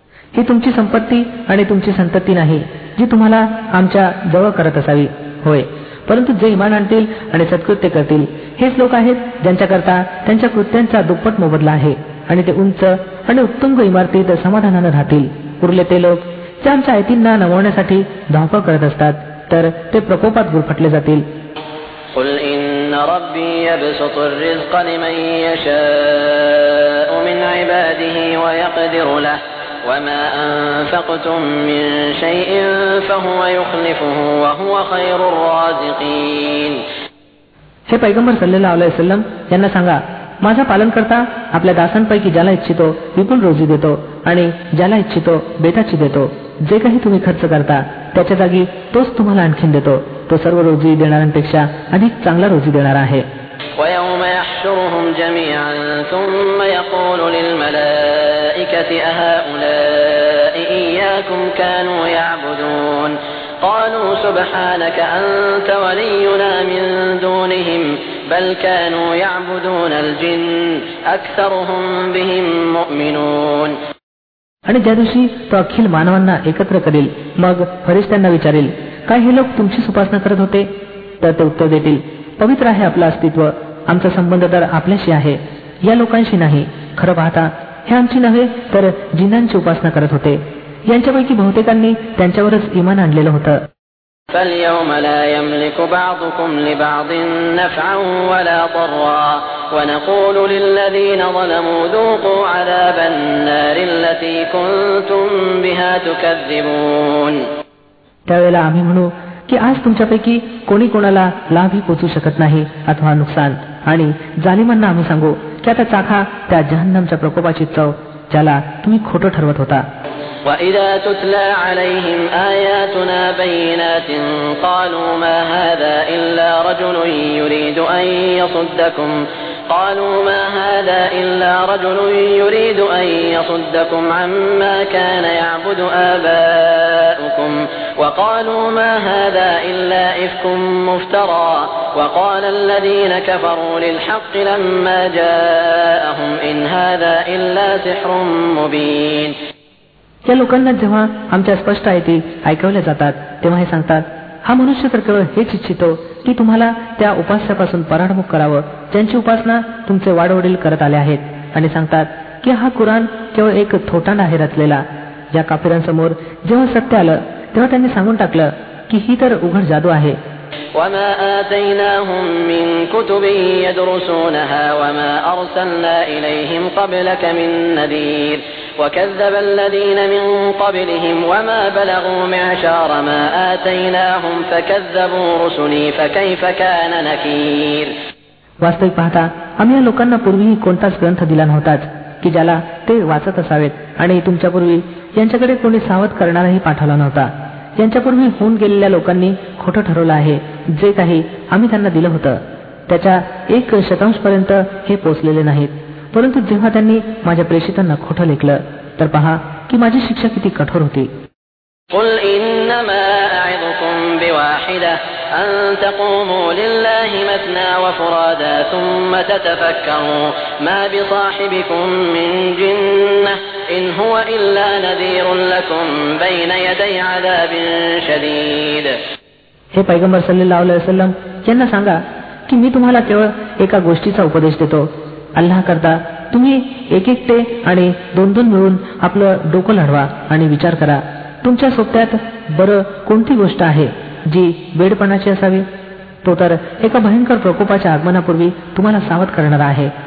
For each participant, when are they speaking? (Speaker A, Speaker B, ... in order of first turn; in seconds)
Speaker A: 0.3-21.2, 37.9-53.2, 74.7-80.7, 81.2-93.6, 108.3-119.8, 150.2-170.2, 188.6-211.1, 229.7-245.7, 246.2-249.9
Speaker B: 22.1-36.8, 53.8-73.8, 94.3-107.5, 120.4-149.4, 170.7-187.9, 211.9-229.0